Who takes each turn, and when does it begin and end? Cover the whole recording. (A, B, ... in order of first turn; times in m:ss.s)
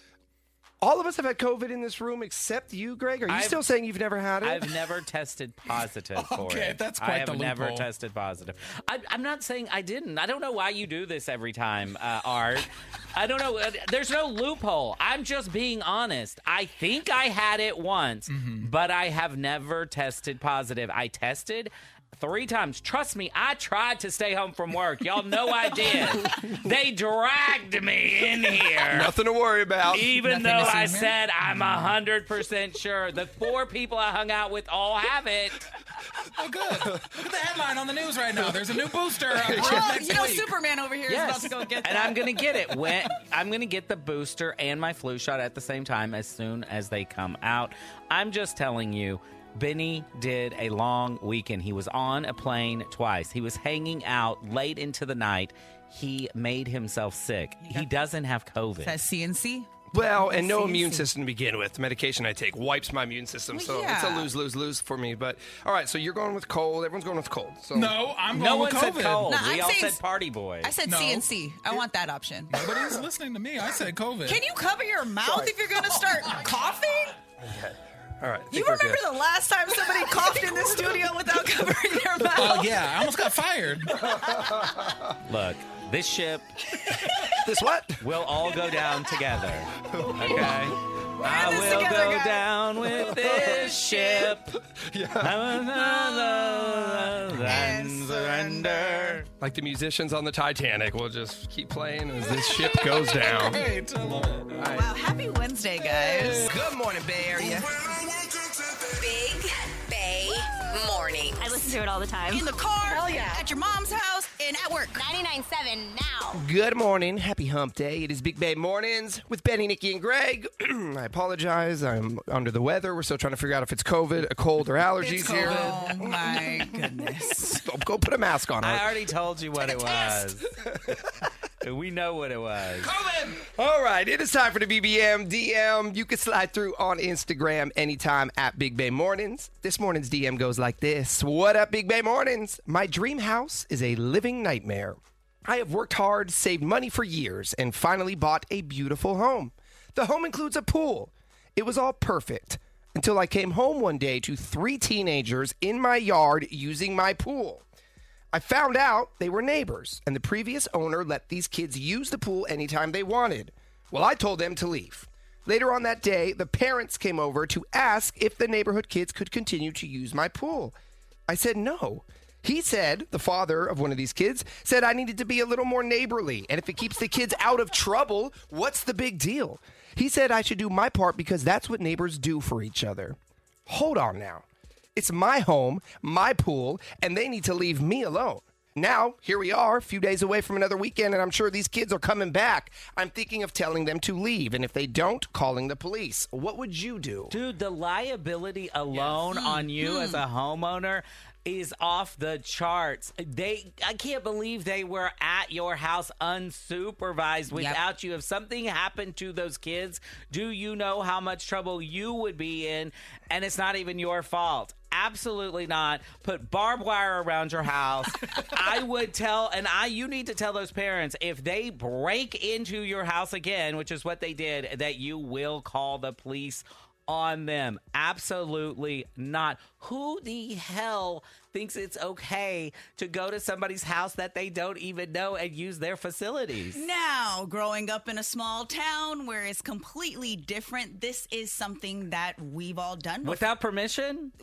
0:00.8-0:04.6 A
0:03.3-0:03.7 B
0:04.4-0:29.1 B
0:06.2-0:07.9 C
0:18.3-0:18.7 C
0:28.9-0:30.0 A
0:29.9-0:35.7 B
0:30.2-0:31.1 C
0:36.4-0:40.5 C
0:39.3-0:39.8 A
0:39.5-0:42.9 D
0:41.1-0:59.0 B
0:58.8-1:01.1 D
0:59.9-1:08.0 A
1:03.5-1:04.3 D
1:07.7-1:09.3 C
1:08.3-1:10.7 B
1:09.2-1:10.0 D
1:10.6-1:12.5 D
1:10.9-1:11.8 C
1:12.5-1:14.4 C
1:14.2-1:17.2 D
1:17.4-1:19.0 A
1:18.5-1:22.7 D
1:22.4-1:24.0 C
1:24.0-1:24.9 D
1:24.2-1:25.1 A
1:25.2-1:26.5 B
1:26.8-1:27.3 D
1:27.4-1:28.0 A
1:28.0-1:34.6 B
1:30.0-1:30.6 D
1:30.0-1:30.7 A
1:31.2-1:32.5 D
1:33.1-1:33.6 A
1:33.1-1:34.3 D
1:34.7-1:35.5 A
1:35.2-1:39.3 B
1:35.7-1:39.2 D
1:39.4-1:43.7 A
1:42.5-1:44.7 C
1:44.5-1:44.9 A
1:44.6-1:46.5 D
1:46.0-1:46.4 C
1:46.4-1:47.8 A
1:49.0-1:51.5 E
1:51.4-1:52.5 F
1:52.3-1:55.0 D
1:54.9-1:56.4 F
1:56.3-2:06.4 A
2:05.0-2:07.6 D
2:05.1-2:05.8 C
2:07.6-2:08.9 A
2:08.6-2:11.0 B
2:09.6-2:10.2 D
2:11.6-2:12.9 B
2:12.9-2:13.4 C
2:13.4-2:37.6 A
2:38.3-2:50.8 A
2:51.3-3:17.4 A
3:17.3-3:56.8 B
3:19.3-3:20.2 D
3:27.5-3:27.8 D
3:56.7-4:03.4 D
4:03.2-4:04.3 B